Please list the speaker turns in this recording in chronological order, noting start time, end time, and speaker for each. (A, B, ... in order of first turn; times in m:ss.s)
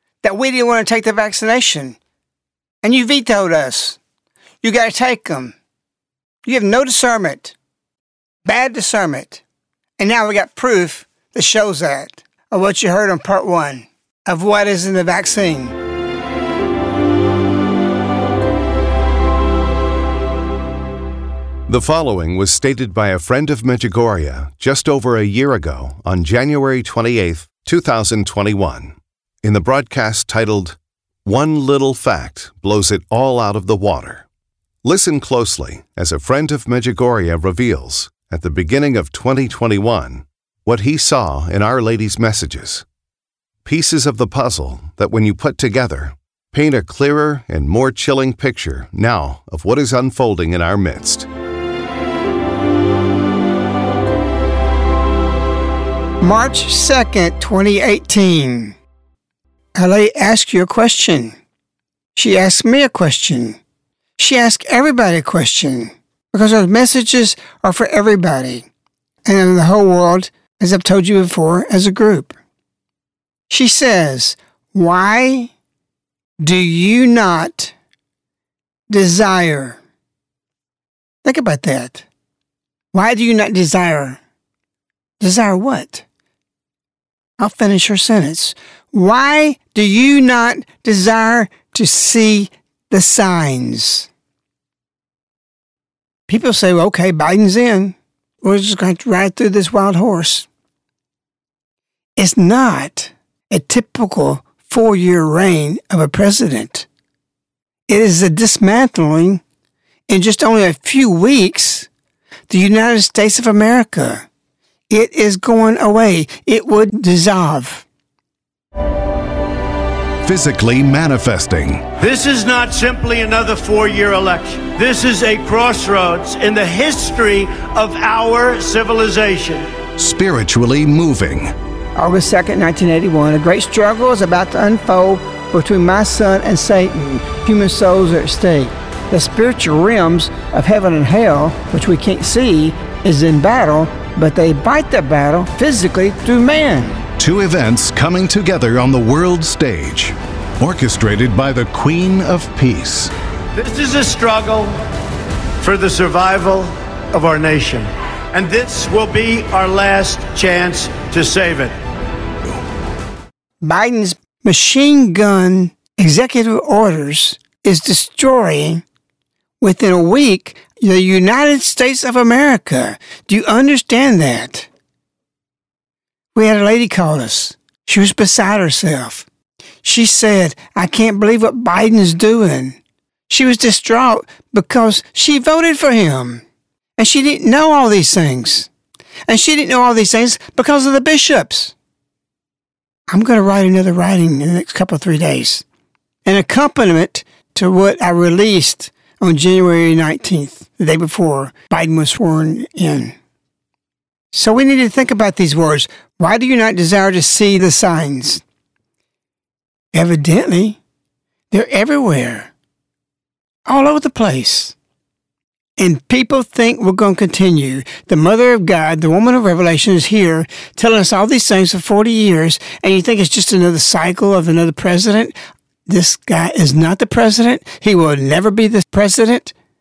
0:00.2-0:02.0 A
0:02.8-0:04.0 A
0:04.6-0:05.5 A
0:06.4-0:07.5 A
0:08.4-0:09.4 A
0:10.0-0:15.7 A
0:21.7-0:34.2 B
0:34.8-0:42.8 B
0:43.6-0:51.3 B
0:56.2-0:58.8 A
0:59.8-1:01.3 A
1:02.2-1:03.6 A
1:04.2-1:08.7 A
1:09.2-1:12.4 A
1:13.5-1:15.5 A
1:16.4-1:17.7 A
1:18.9-1:19.8 A
1:21.2-1:22.0 A
1:22.9-1:24.2 A
1:25.2-1:26.0 A
1:27.4-1:34.1 A
1:36.3-1:40.5 A
1:42.2-1:46.8 A
1:47.9-1:49.4 A
1:50.1-1:51.9 A
1:52.5-1:54.2 A
1:54.9-1:57.8 A
2:00.2-2:01.9 B
2:02.0-2:09.7 C
2:10.0-2:11.5 B
2:11.9-2:27.0 A
2:27.2-2:33.1 B
2:33.5-2:34.8 C
2:35.6-2:41.8 C
2:43.6-2:48.8 A
2:49.6-2:54.7 A
2:56.3-2:59.3 A
2:59.8-3:02.8 A
3:03.3-3:06.4 A
3:07.0-3:08.7 A
3:09.3-3:11.7 A
3:13.1-3:15.6 A
3:16.2-3:23.1 A
3:24.3-3:28.4 A
3:29.9-3:30.8 A
3:31.5-3:32.5 A
3:33.6-3:34.7 A
3:35.8-3:45.3 A
3:45.9-3:49.5 A